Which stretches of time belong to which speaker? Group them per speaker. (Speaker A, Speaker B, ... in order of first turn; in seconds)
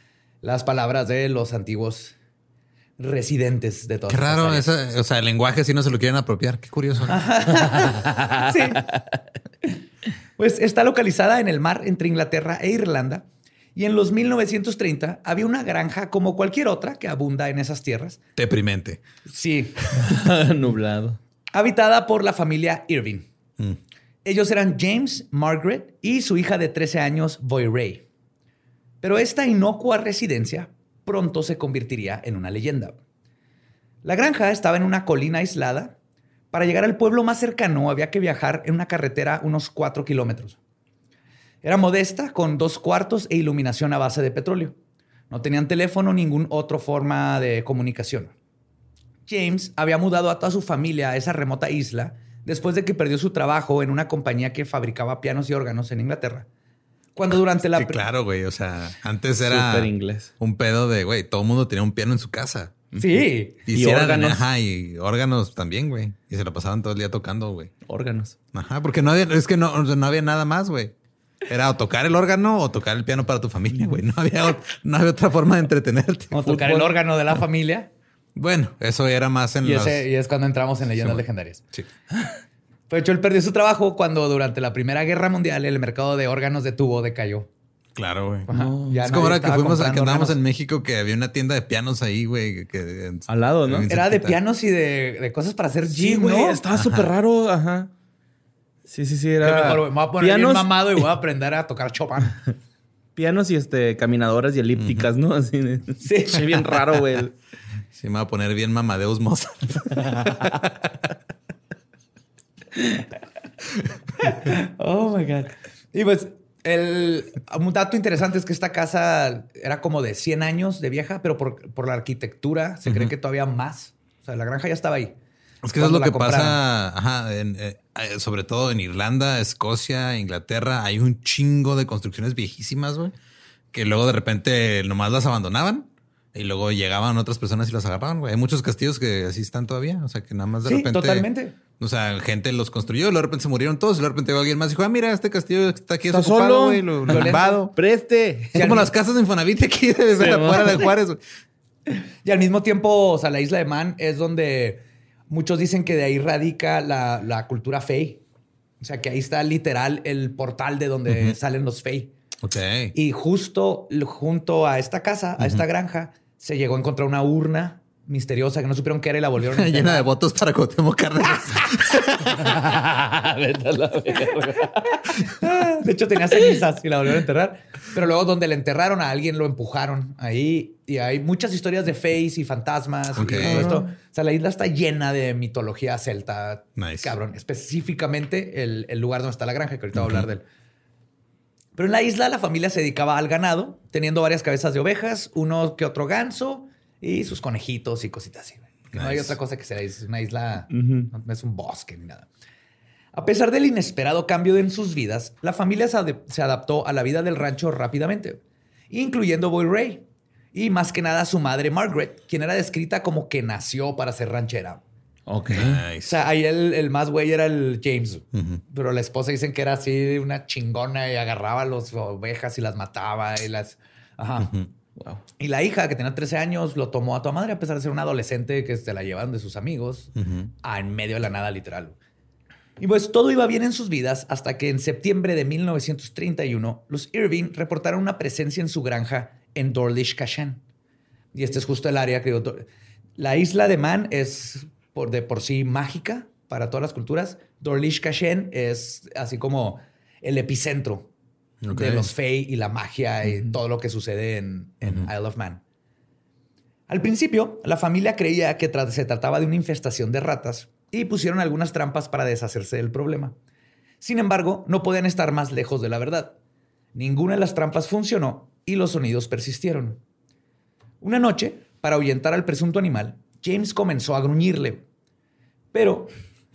Speaker A: 0.4-2.1, 3.0-4.7, 7.1-8.9, 10.4-18.2, 19.3-20.0, 21.5-23.3, 24.2-28.1, 29.0-33.0, 34.0-36.0, 36.5-40.6, 41.6-44.8, 45.3-48.3, 49.3-56.5, 57.1-58.0, 63.0-63.6, 76.3-77.9, 79.6-81.7, 82.9-87.5, 88.5-90.4, 93.9-96.6, 99.4-102.5, 106.0-106.7, 114.2-125.2, 125.7-126.6, 140.6-141.6, 147.1-147.7, 148.6-148.9, 152.2-158.2, 158.8-162.1, 162.9-170.1, 174.3-190.4, 191.8-202.3, 203.1-214.8, 216.0-224.5, 225.4-230.1, 230.6-232.0, 232.8-240.6, 241.3-242.7, 243.2-251.1, 251.7-255.6, 256.9-263.4, 264.0-266.4, 266.9-270.0, 271.0-274.9, 275.7-276.1
Speaker B: 4.1-7.2, 18.4-19.0, 57.3-62.9, 63.7-67.7, 68.5-70.9, 71.5-76.5, 78.3-80.1, 81.0-81.9, 88.0-94.4, 96.8-97.1, 104.8-105.1, 108.0-110.9, 122.9-123.1, 125.6-133.1, 133.7-147.8, 148.6-151.2, 161.1-161.4, 162.4-162.9, 165.4-165.7, 169.4-172.5, 183.1-183.8, 186.8-187.2, 189.9-190.3, 198.9-199.4, 215.5-216.2, 218.3-218.6, 224.4-224.7, 230.2-230.5, 251.6-252.1, 254.8-255.1
Speaker C: 7.9-9.0, 20.0-21.2, 59.5-60.3, 62.9-64.5, 67.9-68.4, 76.4-77.0, 88.5-89.2, 93.3-93.9, 95.9-97.9, 98.9-101.1, 103.2-107.3, 146.1-148.8, 150.2-150.9, 172.2-175.4, 176.3-176.6, 183.4-183.8, 200.7-201.1, 215.3-215.8, 225.0-225.2